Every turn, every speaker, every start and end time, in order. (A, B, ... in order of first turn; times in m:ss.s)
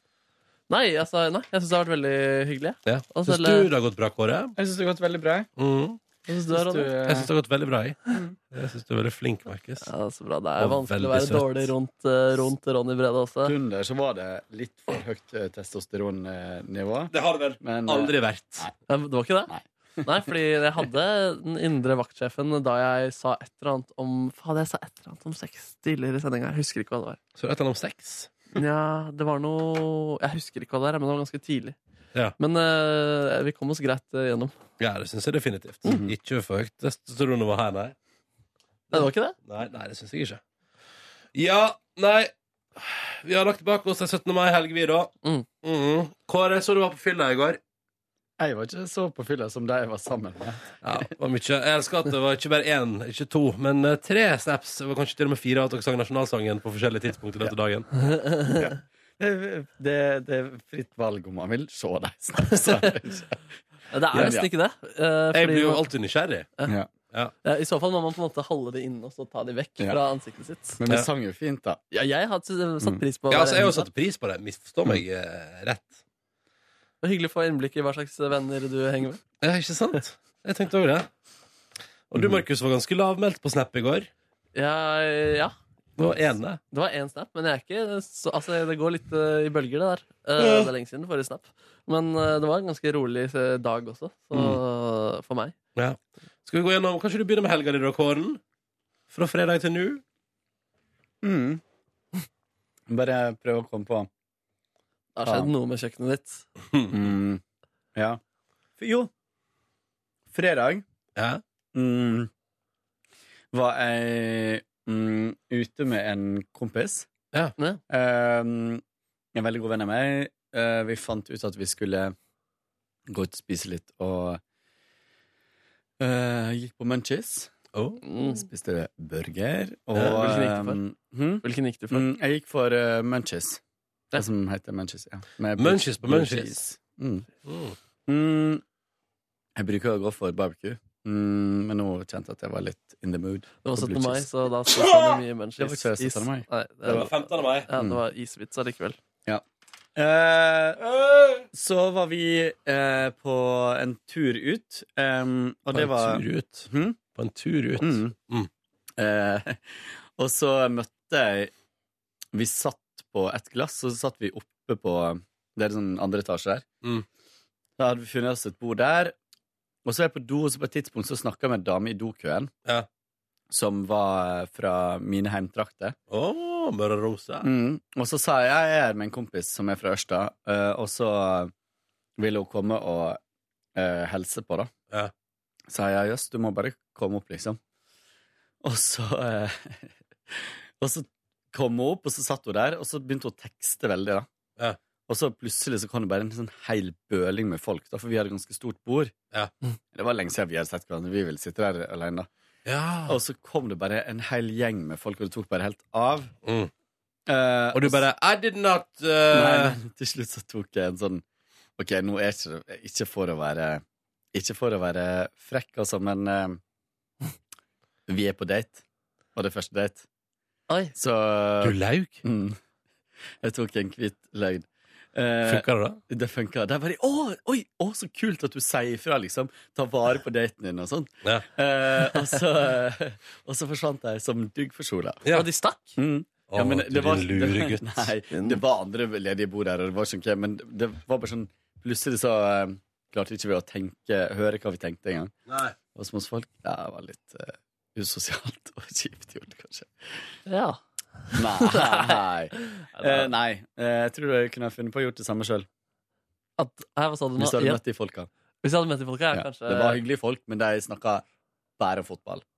0:00.7-0:03.7 A
0:02.8-0:04.6 B
0:04.6-0:05.5 C
0:05.6-0:06.0 B
0:06.3-0:06.9 A
0:06.5-0:07.3 C
0:07.0-0:08.0 B
0:08.5-0:09.9 B
0:09.8-0:13.5 A
0:10.6-0:11.7 B
0:13.4-0:18.7 C
0:17.1-0:18.7 B
0:18.9-0:27.2 A
0:19.5-0:20.1 C
0:27.4-0:28.3 B
0:28.6-0:31.8 A
0:32.4-0:34.5 A
0:34.8-0:38.0 B
0:35.9-0:36.1 C
0:38.9-0:40.4 B
0:38.9-0:39.4 A
0:41.3-0:45.1 B
0:45.6-0:47.6 B
0:48.4-0:51.1 C
0:50.8-0:57.9 B
0:58.0-0:58.7 A
0:58.6-1:03.4 C
1:03.9-1:05.9 A
1:04.1-1:04.5 C
1:05.3-1:06.5 B
1:06.6-1:06.9 C
1:07.4-1:10.8 A
1:10.8-1:11.8 C
1:11.9-1:13.9 A
1:13.3-1:16.0 B
1:17.0-1:19.2 A
1:19.4-1:21.1 B
1:22.1-1:24.1 B
1:24.6-1:25.5 A
1:26.0-1:26.6 B
1:26.7-1:35.6 A
1:30.4-1:30.7 B
1:34.3-1:34.6 B
1:35.8-1:38.4 B
1:39.1-1:40.0 B
1:41.2-1:41.6 C
1:42.9-1:44.1 C
1:45.2-1:46.4 A
1:45.2-1:45.5 C
1:46.9-1:47.4 C
1:48.8-1:49.1 C
1:50.3-1:50.8 C
1:51.2-1:51.4 B
1:51.7-1:52.3 C
1:53.5-1:57.1 C
1:57.9-1:58.8 C
1:59.4-2:02.2 C
2:03.1-2:04.4 C
2:06.0-2:07.5 C
2:07.7-2:08.0 B
2:08.0-2:08.4 A
2:08.3-2:13.6 C
2:10.0-2:10.8 A
2:11.4-2:12.1 A
2:14.2-2:17.3 C
2:15.6-2:16.7 B
2:17.4-2:17.8 B
2:18.1-2:18.6 C
2:19.6-2:24.3 C
2:23.6-2:29.0 A
2:24.7-2:25.2 B
2:25.6-2:27.1 C
2:26.9-2:27.7 B
2:27.7-2:28.0 C
2:30.0-2:30.8 C
2:30.8-2:31.5 B
2:31.5-2:37.0 C
2:35.7-2:38.5 B
2:37.8-2:38.2 C
2:39.0-2:41.5 C
2:42.3-2:46.6 C
2:47.8-2:49.1 C
2:49.8-2:52.5 C
2:53.5-2:56.0 C
2:56.1-2:57.5 B
2:57.4-3:01.5 C
3:02.2-3:03.2 C
3:03.8-3:04.7 C
3:05.7-3:07.6 C
3:08.6-3:14.3 C
3:15.1-3:19.1 C
3:19.9-3:22.3 C
3:22.6-3:23.2 B
3:23.1-3:26.3 C
3:26.4-3:26.7 B
3:27.3-3:28.0 C
3:27.7-3:29.8 B
3:29.3-3:31.2 C
3:31.8-3:33.8 C
3:34.3-3:36.6 C
3:38.1-3:38.8 C
3:39.4-3:40.0 C
3:41.0-3:42.6 C
3:41.6-3:42.2 B
3:43.4-3:55.2 C
3:45.4-3:46.0 B
3:55.3-3:56.0 A
3:56.0-4:05.3 C
3:56.5-3:58.1 B
3:58.3-3:58.6 A
4:05.5-4:05.8 B
4:05.9-4:10.2 C
4:10.5-4:10.8 A
4:11.4-4:13.3 A
4:11.4-4:15.7 C
4:16.6-4:17.8 A
4:17.4-4:18.3 C
4:18.6-4:20.0 A
4:19.3-4:21.2 C
4:21.8-4:22.4 C